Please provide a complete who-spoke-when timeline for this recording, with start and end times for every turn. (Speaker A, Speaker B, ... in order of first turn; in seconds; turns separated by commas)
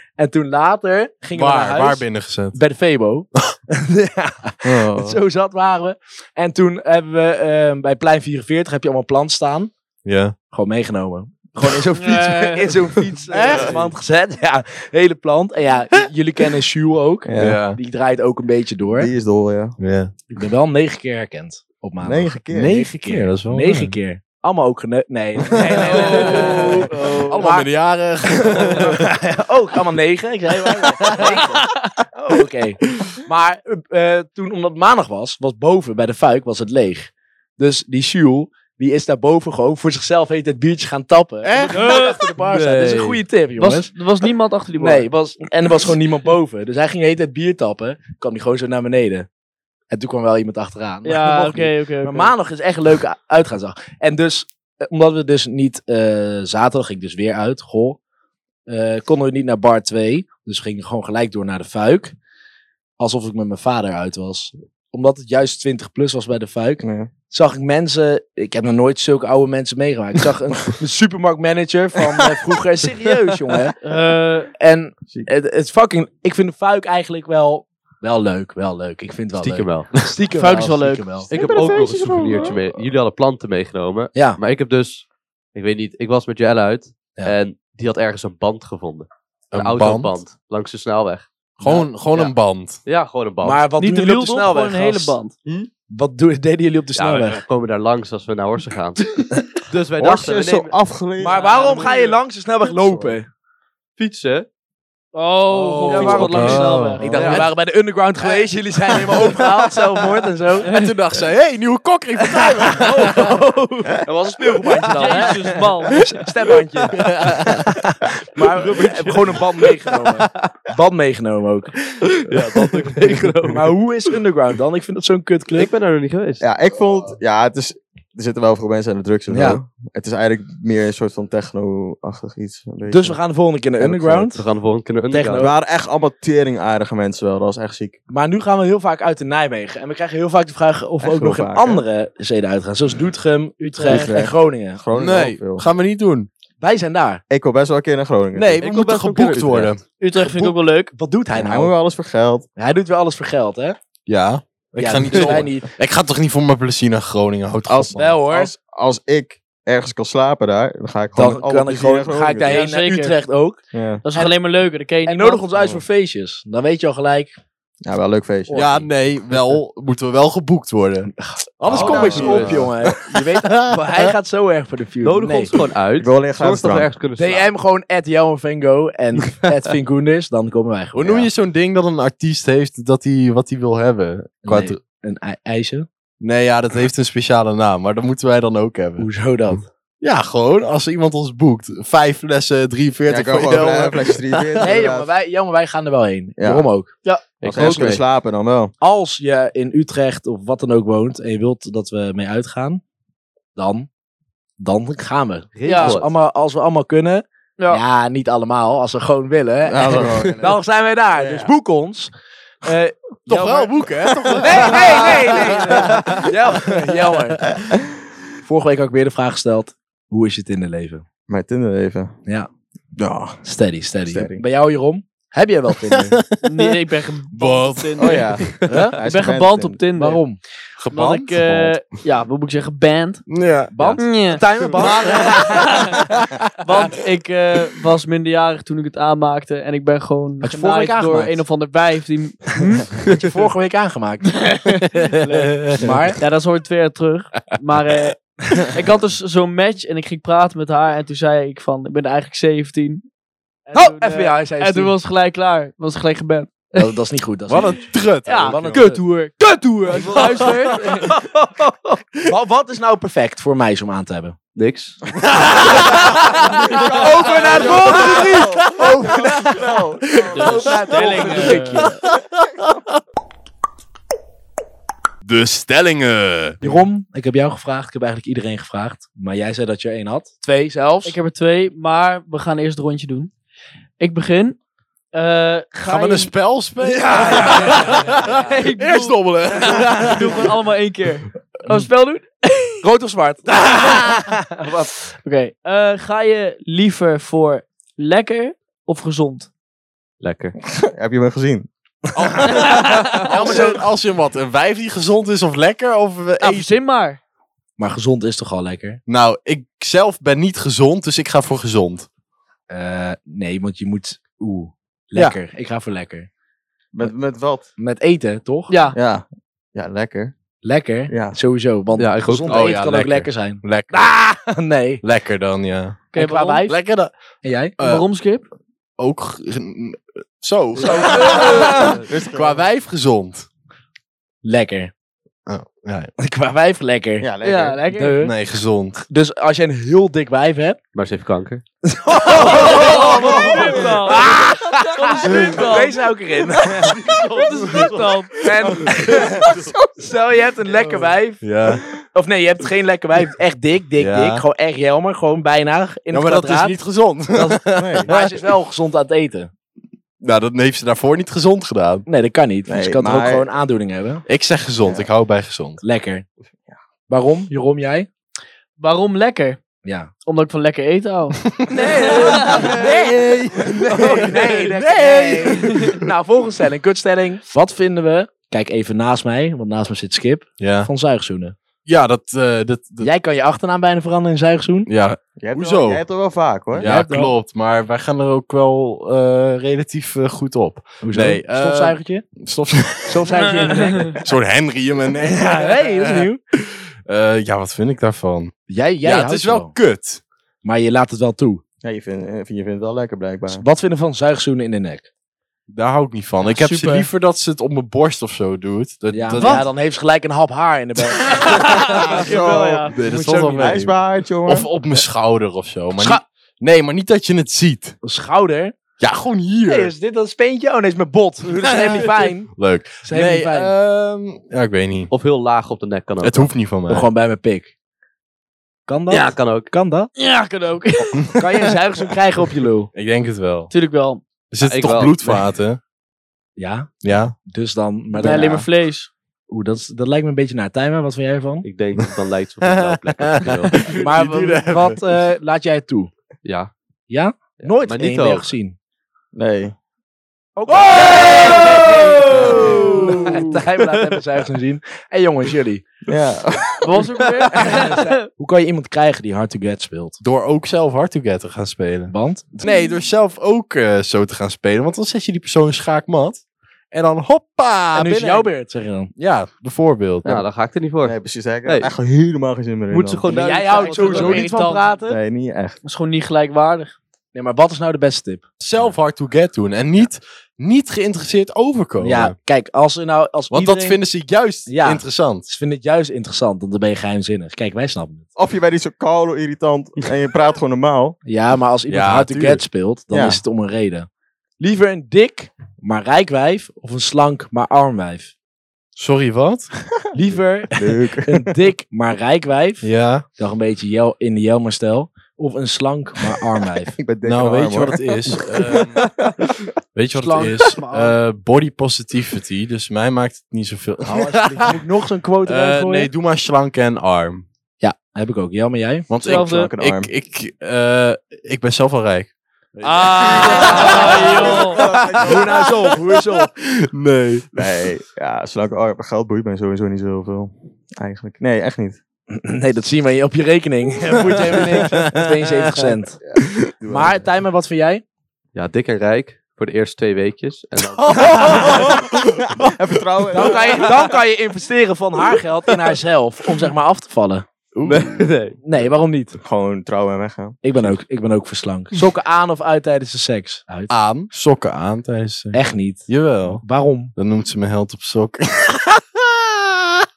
Speaker A: 0.2-9.7, Speaker B: 1.4-2.6, Speaker C: 4.7-5.2, Speaker B: 10.1-10.3, Speaker A: 10.5-19.1, Speaker D: 12.0-12.9, Speaker C: 13.3-13.9, Speaker C: 17.2-17.6, Speaker B: 17.4-17.8, Speaker C: 18.8-19.8, Speaker B: 19.8-20.1, Speaker A: 20.3-27.7, Speaker C: 22.0-22.9, Speaker B: 22.5-24.0, Speaker B: 25.6-29.0, Speaker D: 25.8-27.5, Speaker A: 28.4-43.9, Speaker D: 30.7-32.0, Speaker D: 41.7-42.4, Speaker E: 42.4-43.2, Speaker D: 43.6-45.1, Speaker A: 44.8-49.3, Speaker A: 49.9-58.0, Speaker D: 51.0-52.3, Speaker A: 58.7-62.2, Speaker A: 63.0-73.8, Speaker C: 66.8-67.1, Speaker D: 73.8-74.5, Speaker A: 74.6-81.3, Speaker E: 79.4-80.1, Speaker D: 80.3-81.7, Speaker E: 81.3-91.3, Speaker C: 81.3-82.7, Speaker A: 84.2-84.4, Speaker B: 89.5-90.1, Speaker A: 91.6-91.9, Speaker B: 91.6-92.8, Speaker E: 92.8-93.6, Speaker A: 93.4-95.2, Speaker D: 93.8-95.3, Speaker A: 95.9-97.4, Speaker E: 97.0-100.7, Speaker C: 100.0-101.7, Speaker A: 101.2-103.3, Speaker D: 101.2-102.2, Speaker C: 102.8-103.2, Speaker E: 104.0-104.5, Speaker D: 105.1-107.5, Speaker A: 105.5-110.7, Speaker E: 105.9-107.5, Speaker B: 106.1-107.5, Speaker B: 109.1-109.3, Speaker D: 110.6-111.0, Speaker B: 110.7-113.3, Speaker D: 112.4-113.0, Speaker E: 112.6-115.4, Speaker A: 112.8-113.2, Speaker A: 114.0-121.8, Speaker D: 114.9-116.2, Speaker B: 117.0-117.6, Speaker E: 122.1-123.7, Speaker A: 123.5-125.7, Speaker E: 125.5-126.5, Speaker C: 126.4-133.2, Speaker A: 129.3-129.6, Speaker A: 132.9-134.4, Speaker E: 133.9-135.5, Speaker A: 135.1-135.5, Speaker C: 135.3-138.0, Speaker A: 138.1-144.8, Speaker C: 141.0-141.8, Speaker D: 143.7-144.1, Speaker C: 143.9-145.7, Speaker B: 144.9-146.3, Speaker A: 146.6-147.2, Speaker C: 147.3-148.6, Speaker B: 148.4-150.6, Speaker E: 148.6-149.8, Speaker D: 150.0-150.9, Speaker A: 150.9-151.7, Speaker C: 151.3-152.5, Speaker A: 152.6-153.8, Speaker B: 154.1-158.1, Speaker A: 154.8-155.7, Speaker C: 157.7-162.6, Speaker A: 157.9-158.5, Speaker A: 161.2-163.6, Speaker D: 162.5-163.2, Speaker C: 163.7-164.0, Speaker D: 164.0-165.5, Speaker A: 165.1-167.4, Speaker C: 165.6-165.8, Speaker C: 167.8-168.8, Speaker A: 168.5-168.9, Speaker B: 168.5-174.1, Speaker A: 171.2-175.6, Speaker E: 171.7-172.7, Speaker C: 171.7-172.7, Speaker E: 175.0-177.5, Speaker C: 176.0-176.9, Speaker A: 177.2-181.3, Speaker B: 180.9-184.8, Speaker A: 184.4-185.9, Speaker B: 186.2-189.1, Speaker A: 189.0-189.7, Speaker B: 190.0-194.4, Speaker C: 193.1-195.1, Speaker A: 194.6-196.9, Speaker C: 196.4-196.7, Speaker E: 197.4-198.0, Speaker C: 197.4-198.7, Speaker A: 198.8-202.8, Speaker A: 203.6-203.9, Speaker A: 204.6-212.1, Speaker E: 205.6-206.1, Speaker D: 205.7-206.0, Speaker D: 207.6-207.8, Speaker C: 209.7-210.6, Speaker C: 211.2-211.5, Speaker A: 212.6-213.8, Speaker B: 213.3-216.1, Speaker C: 214.1-214.9, Speaker A: 214.4-217.6, Speaker A: 218.4-221.0, Speaker C: 221.3-222.2, Speaker C: 223.0-223.4, Speaker A: 223.4-226.2, Speaker C: 224.1-224.4, Speaker B: 226.2-226.7, Speaker D: 226.4-228.4, Speaker B: 227.3-228.3, Speaker C: 228.0-229.8, Speaker A: 228.7-229.0, Speaker D: 229.0-230.2, Speaker A: 229.9-230.4, Speaker B: 230.8-231.7, Speaker D: 230.9-233.2, Speaker B: 233.3-234.0, Speaker A: 233.7-236.0, Speaker D: 234.0-236.1, Speaker D: 236.6-243.0, Speaker A: 240.4-241.4, Speaker A: 243.0-246.2, Speaker D: 244.3-245.7, Speaker D: 246.2-253.1, Speaker D: 253.7-257.0, Speaker A: 253.7-255.0, Speaker A: 256.8-259.0, Speaker B: 257.5-258.9, Speaker D: 258.2-262.0, Speaker A: 260.0-260.5, Speaker B: 260.1-261.0, Speaker A: 262.3-264.4, Speaker E: 264.6-265.0, Speaker A: 265.4-272.0, Speaker C: 266.5-270.9, Speaker D: 266.5-267.8, Speaker B: 267.3-269.3, Speaker D: 270.3-271.9, Speaker B: 275.2-276.7, Speaker A: 276.6-281.2, Speaker D: 281.0-283.3, Speaker D: 284.0-284.6, Speaker D: 285.1-286.3, Speaker B: 285.8-290.6, Speaker D: 286.9-292.8, Speaker A: 287.1-288.4, Speaker A: 292.8-294.9, Speaker D: 293.8-294.1, Speaker D: 294.7-299.5, Speaker E: 300.2-300.6, Speaker C: 300.6-301.7, Speaker B: 302.1-306.8, Speaker D: 302.5-303.6, Speaker A: 303.3-303.8, Speaker D: 306.4-307.2, Speaker A: 307.8-309.0, Speaker B: 309.1-312.1, Speaker A: 312.7-316.3, Speaker C: 316.9-317.7, Speaker A: 317.8-318.7, Speaker D: 318.7-319.0, Speaker C: 318.9-320.4, Speaker A: 320.6-325.0, Speaker C: 321.1-321.4, Speaker E: 322.0-322.6, Speaker B: 322.4-324.1, Speaker B: 325.0-326.1, Speaker D: 326.1-326.8, Speaker A: 326.1-326.7, Speaker B: 326.6-327.1, Speaker A: 327.4-327.8, Speaker B: 327.8-328.1, Speaker D: 327.8-328.5, Speaker B: 329.0-333.5, Speaker A: 330.9-331.7, Speaker D: 331.0-332.0, Speaker C: 331.8-332.6, Speaker A: 334.4-334.9, Speaker B: 335.5-336.1, Speaker A: 336.2-337.3, Speaker C: 337.2-337.8, Speaker D: 337.4-338.3, Speaker A: 337.9-338.4, Speaker B: 338.2-339.1, Speaker A: 339.1-340.8, Speaker E: 340.9-341.6, Speaker A: 341.9-347.0, Speaker D: 342.3-346.1, Speaker E: 346.9-348.3, Speaker D: 347.1-348.4, Speaker A: 348.4-351.4, Speaker C: 349.1-349.9, Speaker B: 351.4-351.9, Speaker A: 352.1-356.8, Speaker B: 354.0-354.4, Speaker B: 356.1-358.4, Speaker A: 357.3-359.5, Speaker C: 357.7-358.1, Speaker B: 360.2-362.1, Speaker A: 362.1-364.2, Speaker C: 362.7-363.5, Speaker B: 364.3-365.8, Speaker C: 364.8-365.1, Speaker A: 365.8-366.3, Speaker A: 367.1-368.1, Speaker D: 368.8-369.6, Speaker A: 369.8-370.1, Speaker D: 370.2-371.4, Speaker B: 371.6-376.1, Speaker A: 371.7-381.6, Speaker D: 372.0-372.7, Speaker B: 380.6-380.9, Speaker B: 381.9-383.1, Speaker A: 383.0-384.9, Speaker B: 384.9-386.0, Speaker C: 385.4-386.9, Speaker B: 386.8-400.2, Speaker A: 386.8-387.3, Speaker A: 391.0-392.3, Speaker A: 393.1-394.2, Speaker D: 393.4-394.2, Speaker A: 395.2-396.4, Speaker A: 398.7-399.7, Speaker A: 400.6-401.6, Speaker C: 401.8-403.6, Speaker A: 403.5-405.1, Speaker B: 405.7-409.7, Speaker D: 406.4-407.1, Speaker A: 409.1-413.9, Speaker D: 409.4-409.7, Speaker D: 411.3-413.0, Speaker C: 412.1-412.9, Speaker B: 412.9-418.0, Speaker C: 413.5-414.7, Speaker A: 416.0-416.2, Speaker A: 418.0-418.8, Speaker B: 419.0-419.9, Speaker A: 419.7-422.5, Speaker B: 421.8-425.1, Speaker A: 423.0-423.7, Speaker E: 425.1-426.5, Speaker B: 426.2-427.1, Speaker A: 426.9-427.7, Speaker A: 428.9-430.1, Speaker E: 429.1-429.7, Speaker D: 430.2-431.4, Speaker A: 431.4-432.9, Speaker B: 432.9-433.7, Speaker D: 433.7-434.2, Speaker B: 434.5-435.8, Speaker E: 434.6-435.4, Speaker A: 436.6-438.7, Speaker B: 437.0-437.4, Speaker D: 438.2-439.1, Speaker A: 439.5-441.7, Speaker E: 441.6-443.9, Speaker B: 442.6-445.0, Speaker A: 443.9-446.1, Speaker E: 446.4-446.7, Speaker A: 447.1-448.8, Speaker E: 447.6-448.5, Speaker C: 449.3-449.8, Speaker A: 450.6-455.8, Speaker C: 452.3-453.2, Speaker E: 453.8-454.2, Speaker C: 456.1-457.1, Speaker D: 456.8-458.2, Speaker A: 457.5-460.2, Speaker B: 460.2-468.5, Speaker A: 462.1-462.7, Speaker A: 467.9-469.1, Speaker B: 469.2-470.4, Speaker E: 470.3-471.9, Speaker C: 471.0-473.3, Speaker E: 472.9-474.4, Speaker A: 473.3-475.2, Speaker D: 473.6-474.9, Speaker C: 475.0-475.8, Speaker D: 475.8-476.9, Speaker A: 477.3-478.4, Speaker B: 478.6-482.4, Speaker A: 482.0-484.0, Speaker B: 483.5-485.5, Speaker A: 484.7-488.3, Speaker C: 488.4-491.2, Speaker A: 491.2-494.1, Speaker B: 491.9-492.6, Speaker C: 493.1-493.4, Speaker A: 494.6-498.3, Speaker B: 499.0-499.7, Speaker A: 500.1-507.0, Speaker C: 500.7-501.7, Speaker B: 502.8-503.2, Speaker C: 507.0-509.6, Speaker B: 507.2-509.1, Speaker B: 509.9-514.8, Speaker D: 510.1-511.2, Speaker A: 514.0-516.1, Speaker B: 515.4-517.5, Speaker A: 517.8-519.1, Speaker B: 519.1-527.5, Speaker D: 519.2-519.7, Speaker C: 519.3-520.1, Speaker D: 522.8-524.9, Speaker C: 523.3-525.7, Speaker A: 525.2-526.5, Speaker C: 527.5-532.0, Speaker A: 532.3-536.2, Speaker B: 534.2-536.0, Speaker C: 536.2-537.3, Speaker A: 536.9-538.0, Speaker E: 538.5-542.0, Speaker B: 540.9-542.7, Speaker C: 541.4-544.0, Speaker A: 543.3-547.5, Speaker B: 547.8-548.3, Speaker E: 547.9-548.6, Speaker A: 548.6-549.4, Speaker C: 549.4-550.9, Speaker A: 550.6-553.9, Speaker B: 553.9-556.6, Speaker A: 555.5-557.1, Speaker B: 557.1-560.1